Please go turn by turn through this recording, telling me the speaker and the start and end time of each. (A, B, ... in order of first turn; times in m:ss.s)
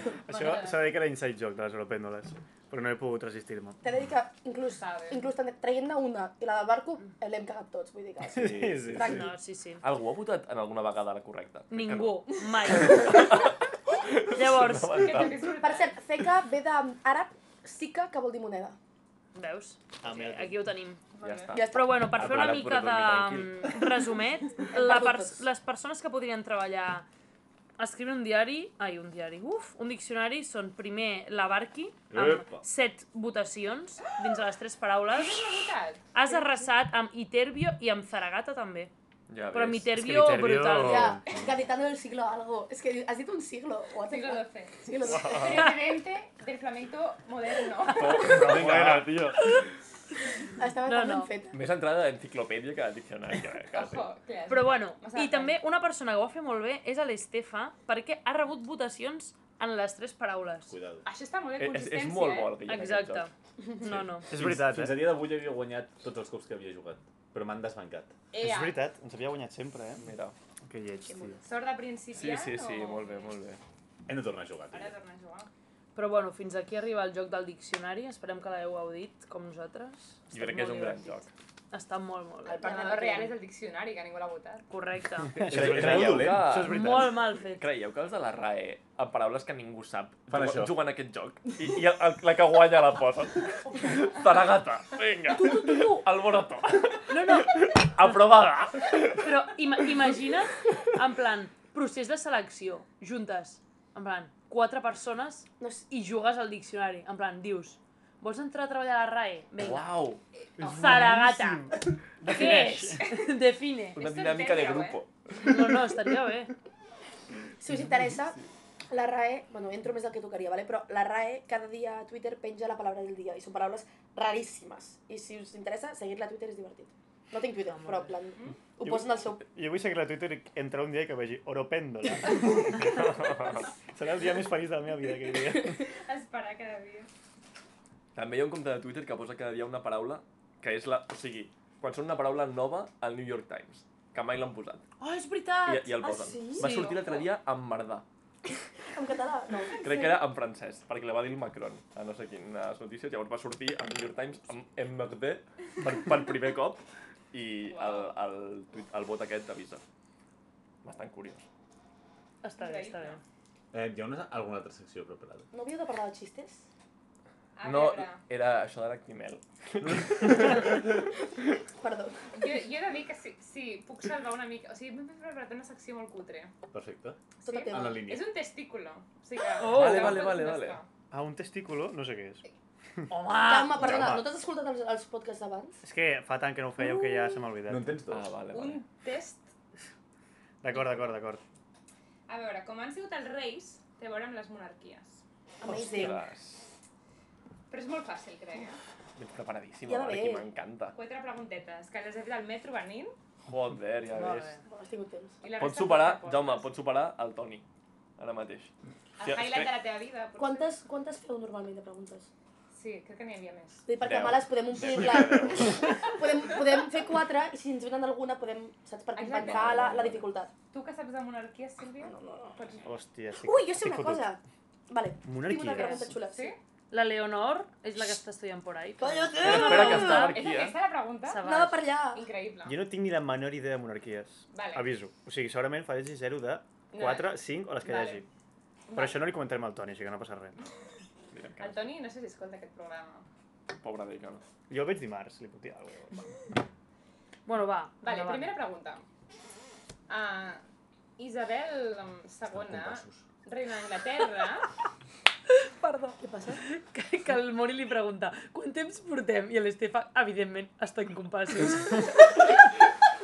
0:00.3-0:03.8 A
0:00.3-0:00.8 B
0:03.8-0:09.2 C
0:04.6-0:05.3 B
0:08.3-0:09.3 A
0:08.4-0:15.6 D
0:09.0-0:09.8 E
0:11.7-0:13.4 E
0:14.4-0:15.3 E
0:15.0-0:16.0 B
0:15.6-0:18.8 C
0:19.4-0:21.0 E
0:20.0-0:20.6 A
0:21.1-0:21.7 B
0:21.2-0:23.8 D
0:21.5-0:22.0 C
0:21.6-0:27.1 E
0:22.2-0:22.8 F
0:24.7-0:25.4 C
0:27.8-0:35.6 E
0:32.1-0:32.6 F
0:35.1-0:36.7 B
0:36.1-0:38.9 E
0:39.3-0:39.9 D
0:39.5-0:41.2 E
0:39.9-0:41.2 A
0:40.7-0:45.7 C
0:44.0-0:48.4 B
0:45.1-0:45.6 D
0:47.9-0:49.5 D
0:48.0-0:48.6 E
0:48.1-0:49.5 A
0:48.4-0:49.1 F
0:50.6-0:51.6 C
0:50.9-0:51.3 E
0:51.5-0:54.1 D
0:53.7-0:55.6 B
0:54.5-1:00.7 E
1:00.7-1:01.1 F
1:01.0-1:02.6 B
1:01.6-1:03.3 D
1:02.7-1:04.3 E
1:03.8-1:04.2 D
1:04.3-1:05.2 A
1:04.3-1:08.1 F
1:08.3-1:08.9 B
1:08.4-1:10.1 A
1:10.0-1:10.4 D
1:10.7-1:11.4 A
1:11.1-1:11.5 C
1:11.4-1:13.3 B
1:12.1-1:13.6 D
1:14.1-1:14.9 F
1:14.7-1:15.5 B
1:16.0-1:23.2 E
1:20.3-1:21.3 D
1:22.4-1:23.3 C
1:22.5-1:24.6 B
1:24.7-1:25.4 E
1:25.3-1:27.2 A
1:25.4-1:39.2 D
1:25.4-1:26.7 F
1:26.6-1:27.7 E
1:30.3-1:30.8 F
1:35.3-1:36.1 E
1:37.1-1:37.7 E
1:39.2-1:49.9 E
1:45.6-1:45.8 C
1:49.6-1:50.2 D
1:50.6-1:53.0 A
1:50.6-1:54.0 E
1:54.0-1:55.0 B
1:54.0-1:55.6 D
1:55.4-1:56.5 E
1:57.6-2:09.4 C
2:07.7-2:08.1 E
2:08.8-2:13.2 A
2:13.2-2:13.6 D
2:13.9-2:15.8 A
2:15.8-2:17.1 B
2:18.1-2:24.8 D
2:25.0-2:27.0 E
2:25.6-2:28.0 D
2:26.0-2:26.6 C
2:28.9-2:30.2 C
2:29.8-2:39.8 D
2:37.7-2:38.1 B
2:40.8-2:41.4 D
2:42.4-2:43.2 E
2:42.6-2:43.2 B
2:43.7-2:45.5 F
2:45.5-2:46.6 C
2:47.6-2:48.2 B
2:47.6-2:50.8 D
2:49.8-2:50.3 F
2:51.8-2:52.2 C
2:52.3-2:56.5 B
2:56.7-2:57.2 F
2:57.4-3:00.9 B
2:57.4-2:58.1 C
2:57.7-2:58.2 F
2:59.6-3:00.2 E
2:59.6-3:00.8 D
3:01.1-3:02.4 A
3:03.1-3:04.2 E
3:03.4-3:05.8 C
3:03.8-3:04.2 A
3:05.8-3:08.0 A
3:06.8-3:07.4 E
3:07.7-3:08.4 F
3:08.1-3:08.8 D
3:08.5-3:09.5 B
3:10.6-3:11.4 A
3:12.3-3:15.2 B
3:15.6-3:16.2 C
3:15.6-3:16.7 D
3:17.7-3:18.8 B
3:19.2-3:21.0 D
3:19.9-3:20.4 C
3:20.9-3:23.1 B
3:23.5-3:24.5 D
3:24.1-3:24.6 E
3:24.6-3:25.4 C
3:25.4-3:26.7 B
3:25.6-3:27.6 D
3:28.2-3:29.7 D
3:29.2-3:30.7 B
3:30.4-3:32.3 C
3:32.7-3:33.9 B
3:33.9-3:40.5 C
3:34.0-3:36.1 D
3:39.2-3:40.0 B
3:39.4-3:40.2 D
3:40.7-3:42.9 B
3:42.0-3:42.6 C
3:42.8-3:44.3 A
3:43.4-3:46.6 C
3:45.2-3:46.2 A
3:45.6-3:46.1 E
3:46.1-3:46.6 B
3:46.9-3:50.4 E
3:49.0-3:50.4 C
3:49.4-3:50.8 D
3:50.3-3:51.4 B
3:51.3-3:51.9 E
3:51.4-3:52.3 C
3:52.1-3:52.8 B
3:52.6-3:58.3 A
3:54.5-3:54.9 B
3:56.9-3:58.2 B
3:58.9-3:59.3 B
3:58.9-4:00.6 A
4:01.3-4:01.8 D
4:01.6-4:03.3 B
4:03.8-4:04.4 D
4:04.7-4:06.3 A
4:07.5-4:08.6 E
4:08.0-4:09.0 B
4:10.1-4:10.6 B
4:11.2-4:14.7 B
4:12.5-4:13.3 F
4:15.6-4:22.1 E
4:16.2-4:16.6 C